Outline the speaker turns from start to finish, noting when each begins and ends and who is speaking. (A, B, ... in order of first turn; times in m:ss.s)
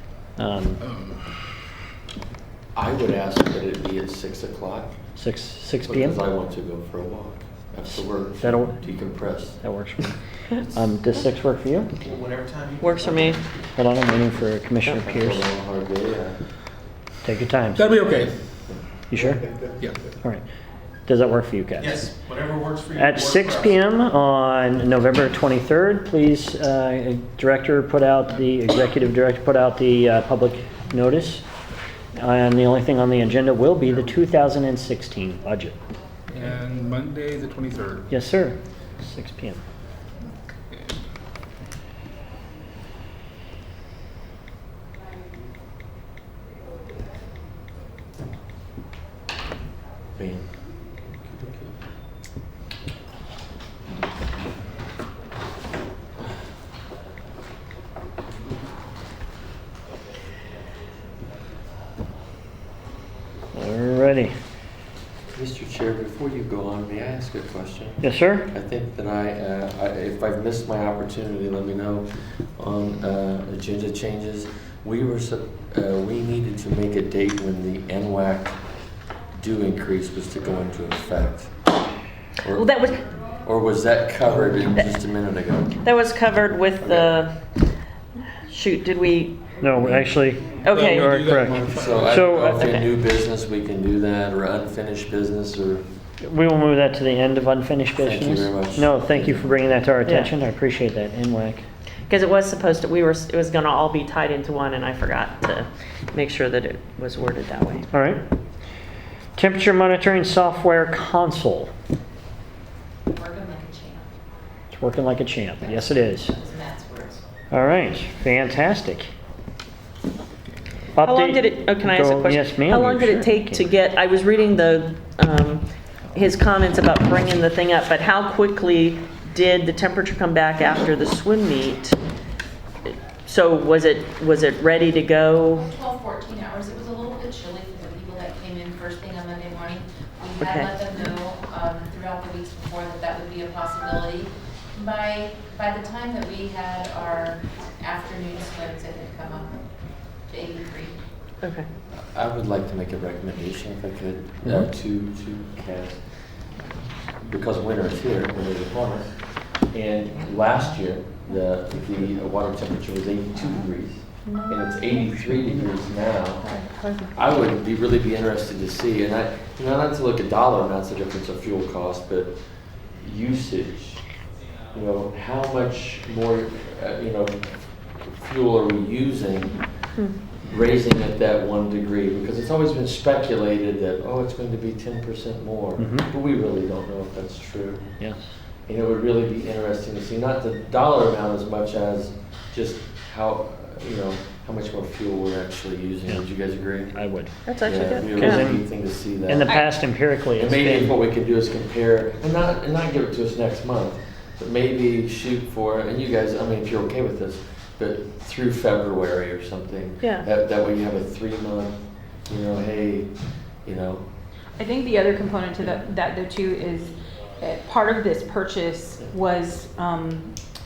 0:00.4-0:00.8 A
0:00.8-0:01.1 B
0:02.8-0:04.9 C
0:05.2-0:06.2 A
0:05.9-0:09.6 C
0:07.9-0:11.9 A
0:12.0-0:13.4 D
0:12.8-0:13.4 E
0:13.8-0:15.5 A
0:15.0-0:16.4 C
0:17.2-0:18.0 A
0:17.8-0:18.4 B
0:19.1-0:19.5 A
0:19.2-0:19.7 D
0:21.1-0:22.1 A
0:21.8-0:23.8 D
0:23.0-0:31.4 A
0:32.2-0:35.8 A
0:36.3-0:38.1 B
0:38.1-0:39.6 A
0:50.2-0:50.5 C
0:51.3-0:51.7 C
1:03.5-1:04.3 A
1:05.3-1:18.6 C
1:08.0-1:08.5 A
1:19.3-1:21.5 C
1:22.4-1:25.8 C
1:22.5-1:23.0 E
1:25.8-1:27.6 E
1:26.8-1:27.2 C
1:28.5-1:29.4 E
1:29.6-1:32.8 A
1:29.7-1:30.3 C
1:30.6-1:31.1 E
1:30.7-1:32.4 B
1:31.6-1:35.8 C
1:32.6-1:32.9 E
1:36.2-1:41.6 A
1:38.0-1:39.8 C
1:40.0-1:40.3 E
1:42.1-1:47.9 E
1:47.9-1:48.2 A
1:49.4-1:51.7 A
1:53.2-1:54.0 F
1:54.7-1:56.4 A
1:56.3-1:57.2 F
1:57.5-1:59.1 A
2:01.0-2:03.7 A
2:01.0-2:12.0 E
2:13.3-2:15.7 E
2:15.7-2:24.3 F
2:20.4-2:20.8 E
2:24.9-2:27.4 F
2:27.9-2:29.5 F
2:30.3-2:30.9 F
2:31.4-2:31.7 E
2:31.9-2:36.0 C
2:37.2-2:46.5 C
2:44.3-2:45.0 G
2:46.4-2:47.1 G
2:47.1-2:52.4 C
2:53.0-2:54.0 C
2:54.7-2:59.7 C
3:00.4-3:07.9 C
3:05.8-3:06.1 A
3:08.0-3:08.3 A
3:08.7-3:17.0 C
3:16.9-3:17.4 A
3:17.5-3:18.5 E
3:17.6-3:19.7 C
3:17.9-3:18.7 A
3:19.2-3:21.0 A
3:20.4-3:33.1 C
3:30.0-3:30.3 E
3:33.6-3:34.0 C
3:34.6-3:40.4 G